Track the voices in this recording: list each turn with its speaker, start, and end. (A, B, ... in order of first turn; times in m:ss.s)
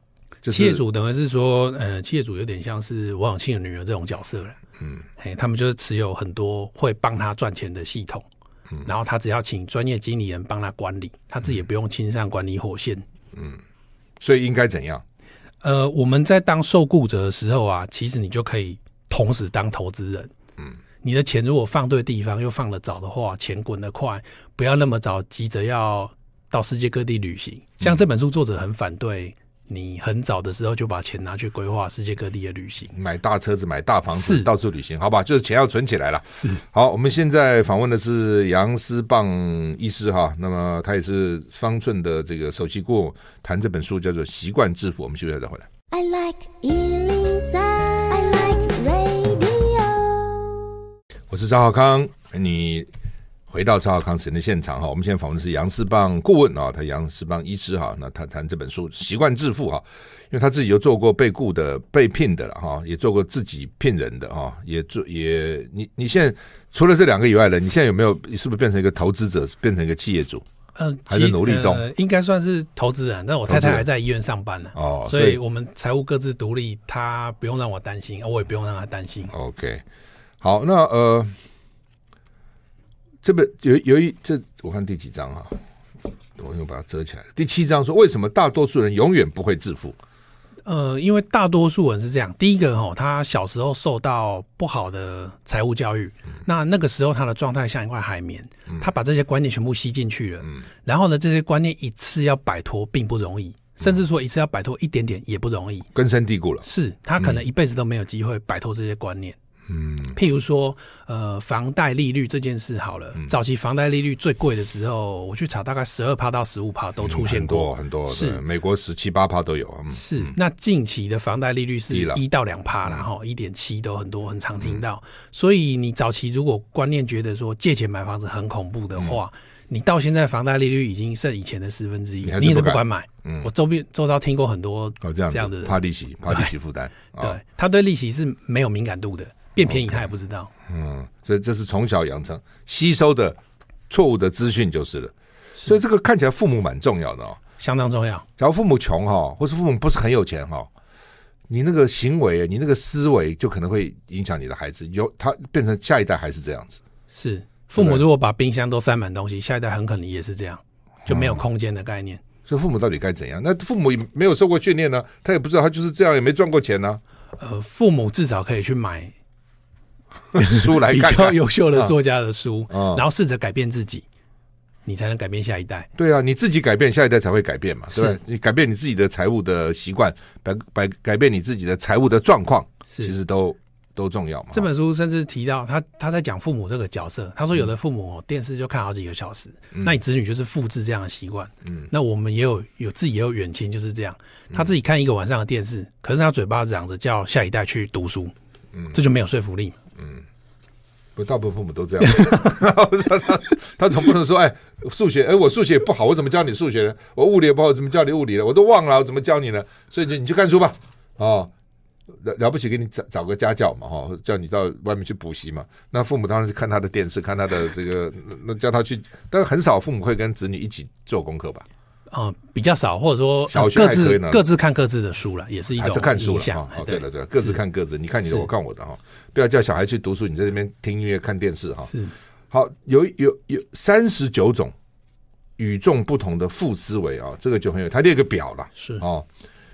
0:00.4-0:00.8 A
0:00.5-0:04.6 B
0:05.2-0:08.3 B
0:08.8-0:13.1 B
0:13.3-0:13.6 A
0:14.2-0:15.0 A
0:15.6-0:20.3 B
0:21.0-0:32.9 B
0:32.9-0:45.7 A
0:34.1-0:34.5 B
0:36.3-0:36.6 B
0:45.9-0:50.7 C
0:51.3-0:52.9 A
0:53.5-1:10.4 A
1:10.8-1:19.3 B
1:11.1-1:11.9 A
1:13.5-1:13.8 A
1:14.8-1:15.4 A
1:19.3-1:19.8 A
1:20.4-1:21.3 A
1:23.2-1:25.6 A
1:26.4-1:30.0 A
1:30.6-1:45.9 B
1:45.9-1:46.7 A
1:46.6-1:49.4 B
1:49.7-1:50.2 A
1:50.1-1:58.4 B
1:57.0-2:00.4 A
1:59.9-2:15.8 B
2:01.9-2:02.2 A
2:12.2-2:13.5 A
2:15.0-2:17.4 A
2:16.3-2:16.5 B
2:17.2-2:20.5 B
2:19.6-2:20.0 A
2:20.7-2:23.4 A
2:23.9-2:27.4 A
2:27.6-2:28.3 B
2:28.4-2:30.7 A
2:31.5-2:36.8 A
2:37.1-2:42.2 B
2:37.8-2:38.0 A
2:41.1-2:41.4 A
2:42.5-2:47.0 A
2:47.4-2:49.1 B
2:50.3-2:51.9 A
2:50.4-2:54.0 B
2:52.7-2:53.0 A
2:54.9-2:55.9 B
2:56.0-3:04.7 A
2:57.9-2:58.2 B
3:04.5-3:18.3 B
3:18.9-3:19.8 B
3:20.0-3:20.2 A
3:21.2-3:31.5 A
3:22.1-3:22.3 B
3:32.2-3:41.7 A
3:42.1-3:47.6 B
3:43.5-3:44.4 A
3:45.8-3:51.9 A
3:52.5-3:54.7 A
3:55.6-3:59.3 A
3:58.8-3:59.0 B